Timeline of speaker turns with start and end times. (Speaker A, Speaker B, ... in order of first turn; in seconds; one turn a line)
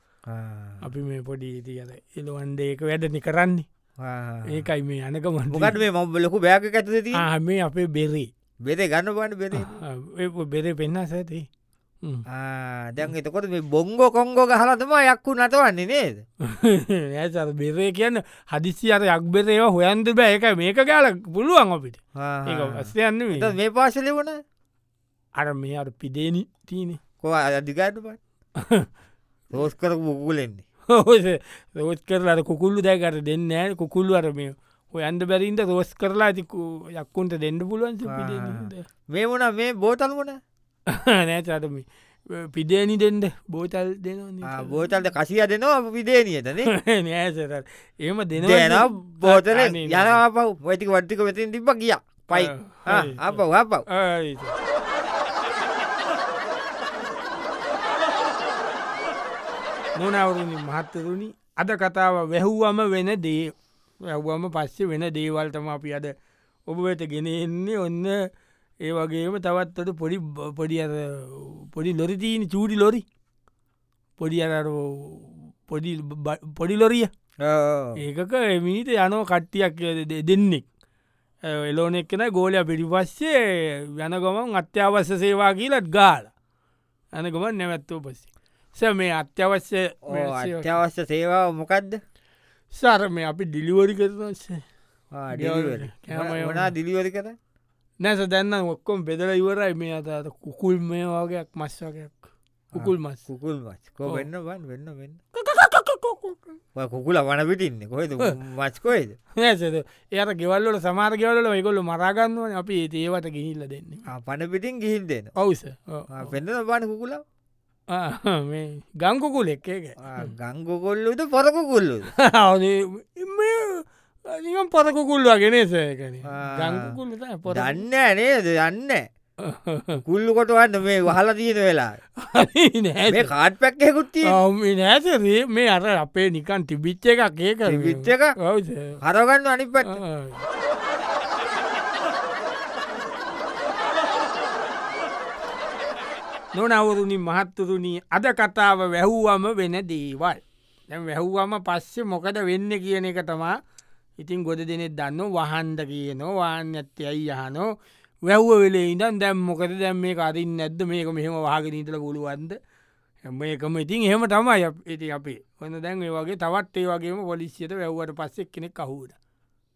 Speaker A: 0.3-0.8
Speaker B: 0.8-3.7
Speaker A: 4.0-4.6
Speaker B: 4.5-5.8
Speaker A: 5.5-7.2
Speaker B: 7.1-8.3
Speaker A: 8.6-9.8
Speaker B: 9.5-11.4
Speaker A: 12.3-16.2
Speaker B: 16.4-23.5
Speaker A: 22.1-24.4
Speaker B: 25.4-27.0
Speaker A: 27.2-28.2
Speaker B: 28.6-28.9
Speaker A: 29.5-30.6
Speaker B: 30.9-38.9
Speaker A: 38.1-40.4
Speaker B: 40.9-44.7
Speaker A: 44.4-46.7
Speaker B: 46.6-50.2
Speaker A: 48.4-53.8
Speaker B: 52.3-54.5
Speaker B: 60.0-63.5
Speaker B: 64.0-66.1
Speaker B: 66.7-68.2
Speaker B: 68.8-73.0
Speaker B: 74.2-77.1
Speaker A: 77.4-78.0
Speaker B: 78.0-80.7
Speaker B: 81.5-86.3
Speaker B: 87.1-90.7
Speaker A: 90.0-92.0
Speaker B: 92.7-94.6
Speaker A: 95.1-97.3
Speaker B: 95.3-96.7
Speaker B: 98.0-103.2
Speaker A: 102.7-105.2
Speaker B: 105.3-106.6
Speaker A: 106.8-109.2
Speaker B: 109.4-114.0
Speaker A: 114.1-115.3
Speaker B: 115.3-116.3
Speaker A: 116.1-117.2
Speaker B: 117.9-120.3
Speaker A: 120.0-122.1
Speaker B: 122.2-127.8
Speaker A: 126.3-127.0
Speaker A: 127.5-129.0
Speaker B: 129.4-130.0
Speaker A: 130.0-132.0
Speaker B: 132.2-133.3
Speaker A: 133.1-134.4
Speaker B: 134.2-139.0
Speaker A: 137.7-138.3
Speaker A: 139.0-140.0
Speaker B: 139.9-140.5
Speaker B: 146.5-153.6
Speaker B: 154.2-157.7
Speaker B: 158.2-162.6
Speaker B: 163.2-169.2